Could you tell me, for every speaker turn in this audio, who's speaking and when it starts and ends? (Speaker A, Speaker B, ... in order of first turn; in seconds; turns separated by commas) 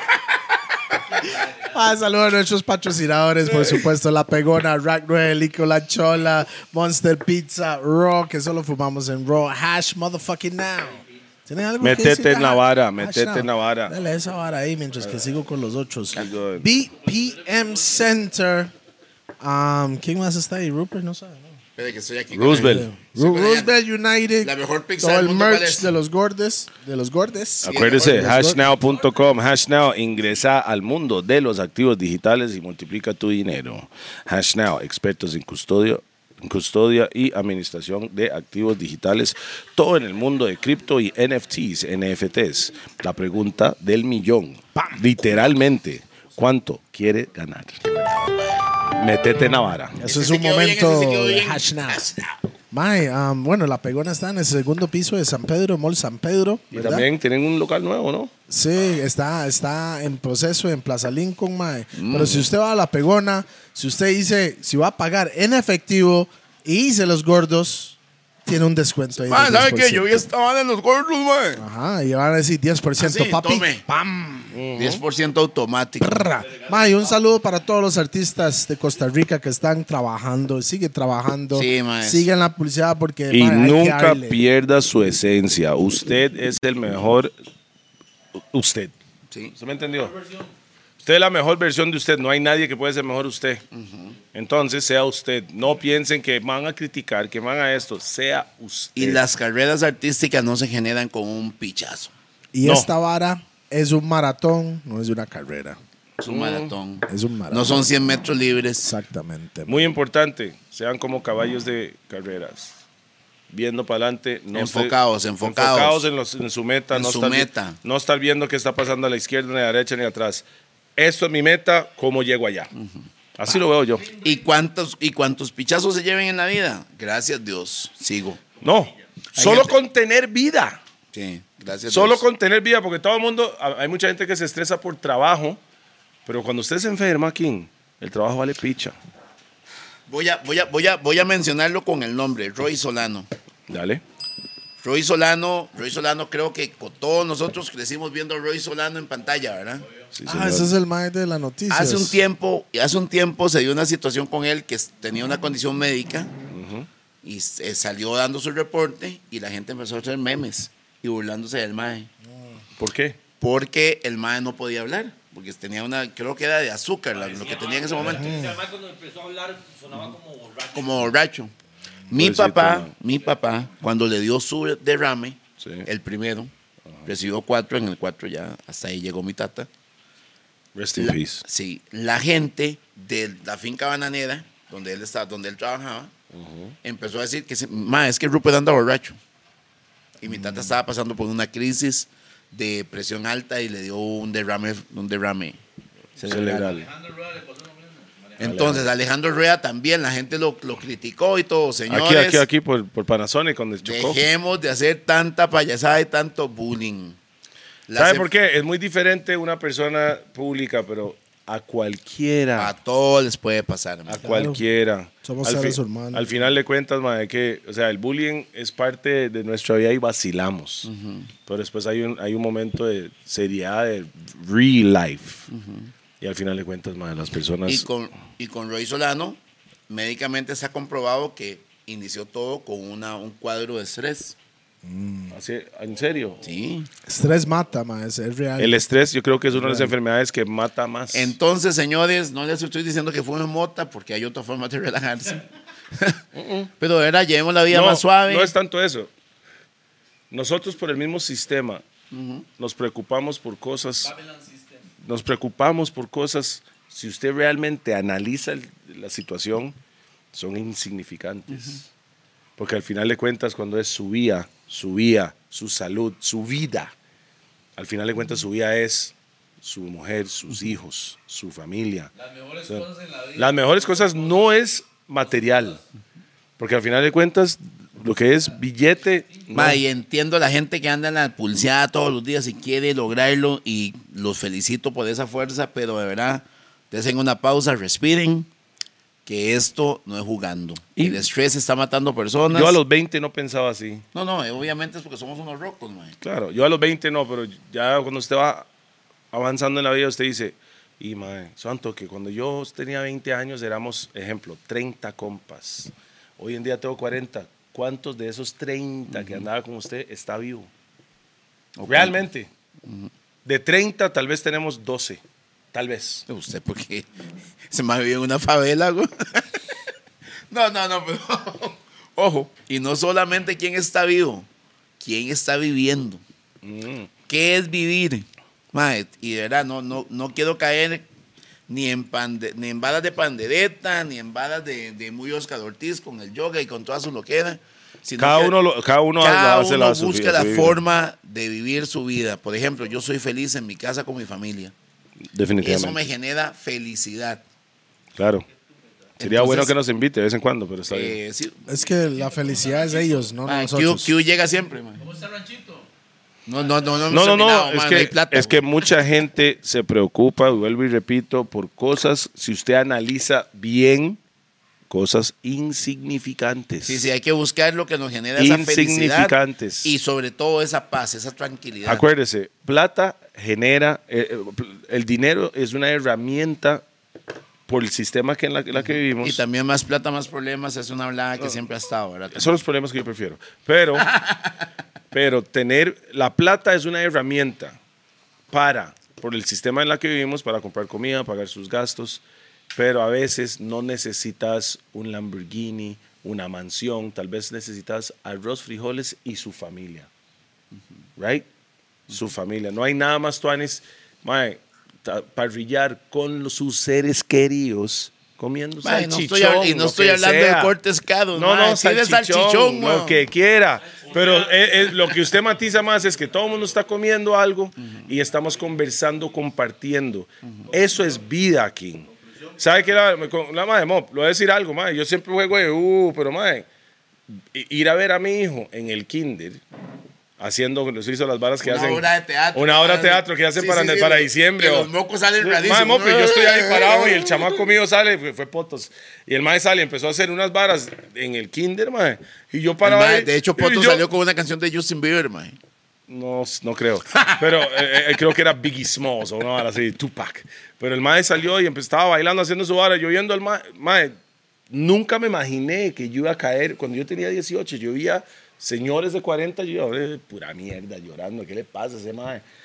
Speaker A: 1.0-1.9, Speaker B: 1.7-18.7, Speaker C: 11.8-13.9, Speaker C: 16.1-16.7, Speaker A: 17.0-18.2, Speaker B: 19.4-21.6, Speaker D: 21.8-23.7, Speaker C: 22.3-22.9, Speaker B: 22.5-28.6, Speaker D: 24.4-25.9, Speaker C: 27.6-48.0, Speaker D: 27.6-28.4, Speaker A: 28.6-29.5, Speaker B: 44.8-45.0, Speaker D: 48.0-48.6, Speaker C: 48.9-50.0, Speaker B: 50.0-52.0, Speaker D: 50.0-52.3, Speaker B: 52.7-57.1, Speaker C: 56.7-58.3, Speaker B: 58.5-70.2, Speaker D: 61.9-62.5, Speaker D: 69.2-71.6, Speaker B: 71.6-74.5, Speaker D: 73.0-73.8, Speaker C: 74.5-75.0, Speaker D: 74.8-76.3, Speaker B: 76.0-84.4, Speaker A: 76.5-77.2, Speaker D: 81.5-82.3, Speaker C: 83.3-87.3, Speaker C: 88.4-88.9, Speaker D: 89.3-89.5, Speaker C: 89.5-90.1, Speaker A: 90.0-90.5, Speaker C: 91.0-93.6, Speaker D: 93.7-94.2, Speaker C: 94.3-99.2, Speaker D: 99.0-102.1, Speaker B: 102.5-105.8, Speaker C: 102.6-102.9, Speaker C: 106.2-106.7, Speaker D: 106.2-108.9, Speaker B: 107.1-107.9, Speaker B: 108.8-109.9, Speaker C: 109.7-112.8, Speaker C: 113.5-120.4, Speaker D: 114.5-116.0, Speaker D: 116.9-117.8, Speaker C: 121.0-122.7, Speaker C: 123.4-124.1, Speaker D: 124.2-128.4, Speaker C: 128.6-130.8, Speaker D: 129.3-129.8, Speaker D: 131.1-132.2, Speaker C: 131.9-135.6, Speaker C: 136.2-138.9, Speaker D: 140.1-143.3, Speaker C: 143.7-144.0, Speaker D: 144.8-149.8, Speaker C: 150.1-150.7, Speaker B: 150.2-152.2, Speaker D: 151.7-156.3, Speaker C: 156.5-156.9, Speaker D: 157.2-162.1, Speaker B: 162.3-162.6, Speaker C: 162.8-163.2, Speaker D: 163.4-168.4, Speaker E: 167.1-171.1, Speaker B: 168.0-168.6, Speaker D: 170.7-171.5, Speaker D: 172.1-176.5, Speaker C: 172.1-172.9, Speaker C: 175.6-175.9, Speaker D: 177.0-179.7, Speaker C: 180.7-181.4, Speaker D: 180.9-186.1, Speaker C: 186.3-186.7, Speaker D: 186.8-189.2, Speaker D: 190.2-195.6, Speaker D: 196.2-196.7, Speaker C: 196.2-196.9, Speaker A: 196.4-198.7, Speaker D: 198.4-202.4, Speaker C: 198.4-198.9, Speaker C: 201.9-204.2, Speaker D: 203.8-207.2, Speaker D: 207.9-208.3, Speaker C: 207.9-212.7, Speaker D: 212.6-214.3, Speaker C: 214.1-220.9, Speaker B: 214.2-214.6, Speaker B: 215.2-216.3, Speaker D: 220.8-221.3, Speaker C: 221.5-225.5, Speaker D: 225.5-225.9, Speaker C: 226.2-227.9, Speaker D: 227.7-234.3, Speaker B: 234.8-235.3, Speaker C: 235.3-236.4, Speaker D: 236.4-236.9, Speaker B: 237.0-238.8, Speaker C: 238.6-241.3, Speaker B: 239.5-239.9, Speaker D: 241.1-245.4, Speaker D: 245.9-246.2, Speaker C: 246.3-246.7, Speaker D: 246.8-248.5, Speaker C: 247.7-249.1, Speaker C: 250.3-251.8, Speaker D: 252.1-252.4, Speaker C: 252.6-254.1, Speaker A: 254.0-254.9, Speaker C: 255.0-259.8, Speaker C: 260.3-261.9, Speaker C: 262.6-266.9, Speaker C: 267.8-272.1, Speaker A: 272.1-274.5, Speaker C: 272.7-275.8, Speaker A: 275.2-275.8, Speaker C: 276.6-279.8, Speaker D: 279.5-288.5, Speaker D: 289.2-292.8, Speaker C: 290.9-291.2, Speaker C: 292.5-294.0, Speaker D: 294.1-296.1, Speaker C: 296.2-298.6, Speaker C: 299.3-310.7, Speaker D: 309.1-309.4, Speaker D: 311.8-312.2, Speaker C: 311.9-312.5, Speaker C: 313.4-315.2, Speaker C: 315.7-316.2, Speaker D: 316.3-317.1, Speaker D: 317.7-319.6, Speaker D: 320.5-324.5, Speaker D: 325.0-326.2, Speaker C: 326.6-327.1, Speaker D: 327.3-331.1, Speaker D: 331.7-338.6, Speaker C: 338.2-340.8, Speaker D: 339.2-344.7, Speaker C: 345.3-346.0, Speaker D: 345.6-347.4, Speaker C: 348.1-348.4, Speaker D: 349.2-349.7, Speaker C: 349.2-351.2, Speaker D: 350.9-351.6, Speaker B: 351.7-354.1, Speaker A: 351.7-353.3, Speaker D: 353.4-355.0, Speaker A: 355.0-355.9, Speaker D: 356.5-358.6, Speaker C: 357.1-364.2, Speaker C: 364.9-367.1, Speaker D: 366.9-372.0, Speaker C: 368.4-369.9, Speaker C: 371.9-376.8, Speaker C: 377.7-379.4, Speaker D: 379.2-382.6, Speaker C: 382.3-384.1, Speaker C: 385.1-387.8, Speaker C: 388.5-392.2, Speaker C: 392.7-400.1, Speaker C: 401.2-401.5, Speaker C: 402.1-410.7, Speaker D: 408.8-413.2, Speaker C: 411.3-426.6, Speaker E: 414.0-415.1, Speaker C: 427.5-429.6, Speaker C: 430.4-434.9, Speaker D: 431.6-437.5, Speaker C: 435.4-444.0, Speaker D: 442.8-445.6, Speaker C: 446.1-454.1, Speaker C: 454.7-462.4